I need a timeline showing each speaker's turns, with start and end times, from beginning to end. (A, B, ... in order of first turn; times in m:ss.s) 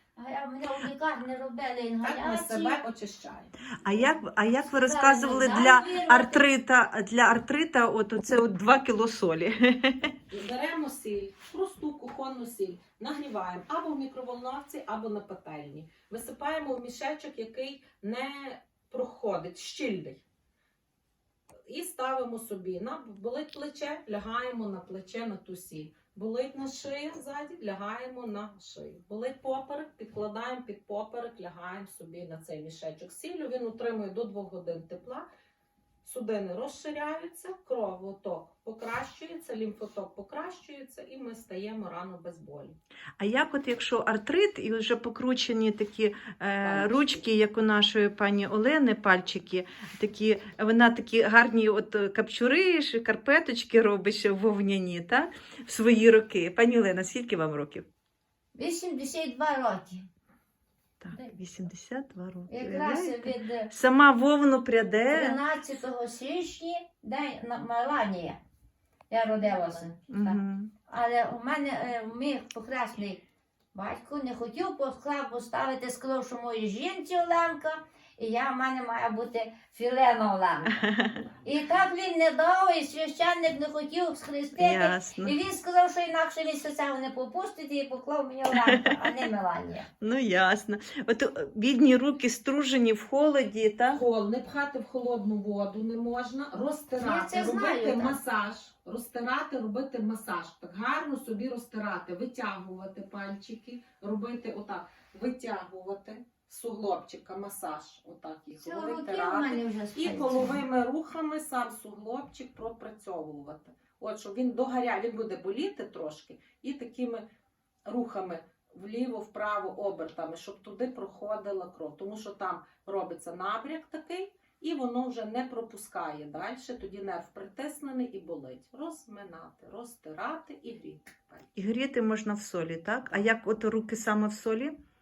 0:00.2-0:02.8 A
0:02.0-0:04.1 B
0:03.8-0:10.1 C
0:04.6-0:06.4 A
0:10.3-0:20.2 B
0:21.7-0:35.3 B
0:36.0-0:42.8 B
0:43.2-0:57.8 C
0:46.6-0:47.2 B
0:58.5-1:00.1 A
1:01.0-1:05.4 C
1:02.5-1:03.7 A
1:05.1-1:08.4 A
1:09.1-1:13.2 A
1:09.4-1:09.9 B
1:10.1-1:10.7 C
1:13.7-1:20.8 A
1:20.7-1:21.2 C
1:21.4-1:29.9 A
1:24.6-1:25.4 C
1:28.5-1:29.3 C
1:30.0-1:34.0 C
1:33.9-1:57.2 B
1:37.0-1:38.2 A
1:48.5-1:50.6 A
1:57.9-2:11.5 B
2:11.6-2:14.7 C